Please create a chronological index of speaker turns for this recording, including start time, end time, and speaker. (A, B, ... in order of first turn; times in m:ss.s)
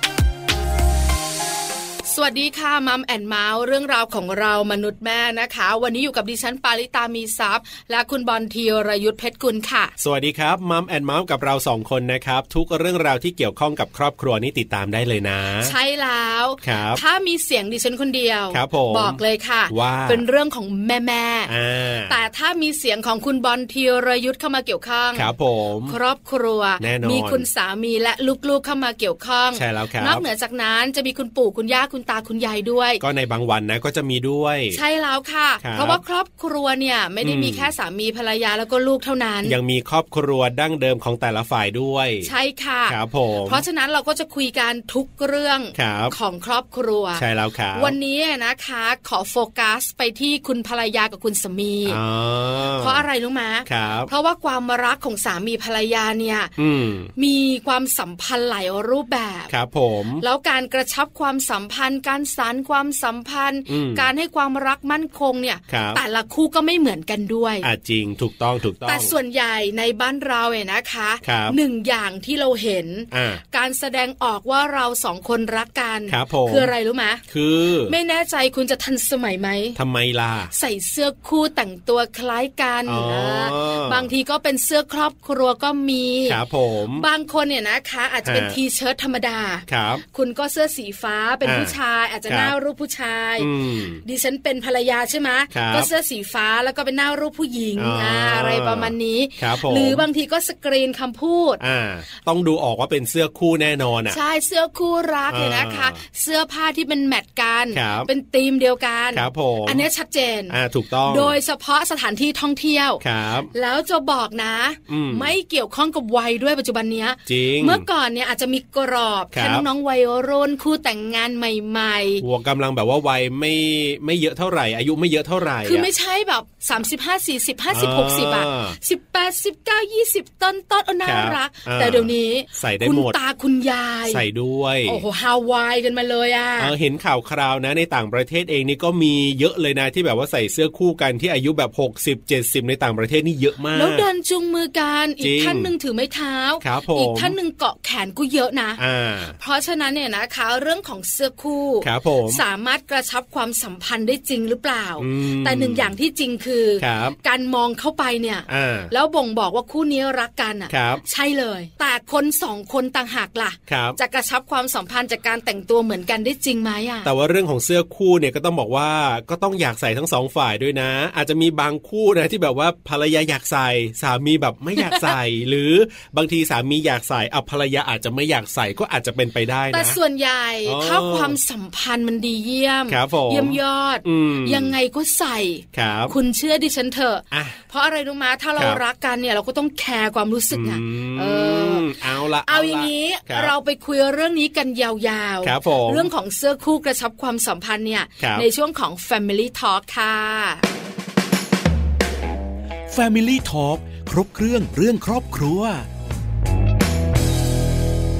0:02.1-0:09.9 A
0:10.0-0:15.7 B
0:15.6-0:21.5 A
0:16.6-0:17.0 B
0:18.5-0:20.2 B
0:21.5-0:22.1 B
0:22.1-0:25.3 A
0:25.1-0:26.0 B
0:25.9-0:33.0 A
0:26.8-0:27.4 B
0:29.5-0:30.2 B
0:33.0-0:34.8 B
0:34.7-0:39.6 A
0:35.6-0:36.0 B
0:37.2-0:37.7 B
0:39.4-0:42.3 B
0:42.2-0:47.2 A
0:42.9-0:43.6 B
0:45.7-0:46.1 B
0:47.2-0:48.0 B
0:47.7-0:52.0 A
0:51.8-0:53.0 B
0:52.8-0:56.5 A
0:53.7-0:54.1 B
0:56.6-0:57.1 B
0:57.2-0:59.5 A
0:59.5-1:00.2 B
1:00.2-1:07.7 A
1:03.7-1:04.1 B
1:05.7-1:06.0 B
1:07.6-1:09.1 B
1:08.8-1:17.2 A
1:11.2-1:11.6 B
1:13.1-1:13.4 B
1:16.1-1:16.7 B
1:17.3-1:17.9 B
1:17.9-1:19.8 A
1:19.8-1:20.5 B
1:20.5-1:26.4 A
1:22.8-1:24.1 B
1:26.3-1:27.0 B
1:27.0-1:33.5 A
1:28.2-1:28.6 B
1:29.7-1:30.0 B
1:31.4-1:31.8 B
1:32.3-1:32.5 B
1:33.4-1:34.0 B
1:34.0-1:41.6 A
1:35.5-1:35.9 B
1:37.8-1:40.0 B
1:41.6-1:44.2 B
1:44.1-2:02.2 A
1:45.3-1:46.0 B
1:47.7-1:48.1 B
1:49.1-1:49.8 B
1:50.5-1:51.4 B
1:53.0-1:53.5 B
1:54.9-1:55.3 B
1:57.2-1:57.8 B
1:59.3-1:59.6 B
2:02.2-2:05.9 B
2:05.6-2:14.2 A
2:07.7-2:08.8 B
2:11.0-2:13.2 B
2:14.1-2:15.0 B
2:14.8-2:16.7 A
2:16.6-2:24.0 B
2:23.7-2:28.8 A
2:25.2-2:25.7 B
2:26.6-2:27.4 B
2:28.8-2:29.4 B
2:29.4-2:47.1 A
2:31.8-2:32.4 B
2:35.0-2:35.9 B
2:36.8-2:37.2 B
2:38.5-2:38.9 B
2:40.7-2:41.0 B
2:43.7-2:44.0 B
2:47.0-3:00.0 B
2:54.8-2:55.1 A
2:59.7-3:11.9 A
3:00.6-3:01.4 B
3:02.9-3:04.7 B
3:05.7-3:06.1 B
3:07.3-3:07.6 B
3:10.5-3:13.5 B
3:12.4-3:20.6 A
3:15.4-3:16.1 B
3:18.2-3:18.4 B
3:22.9-3:25.8 C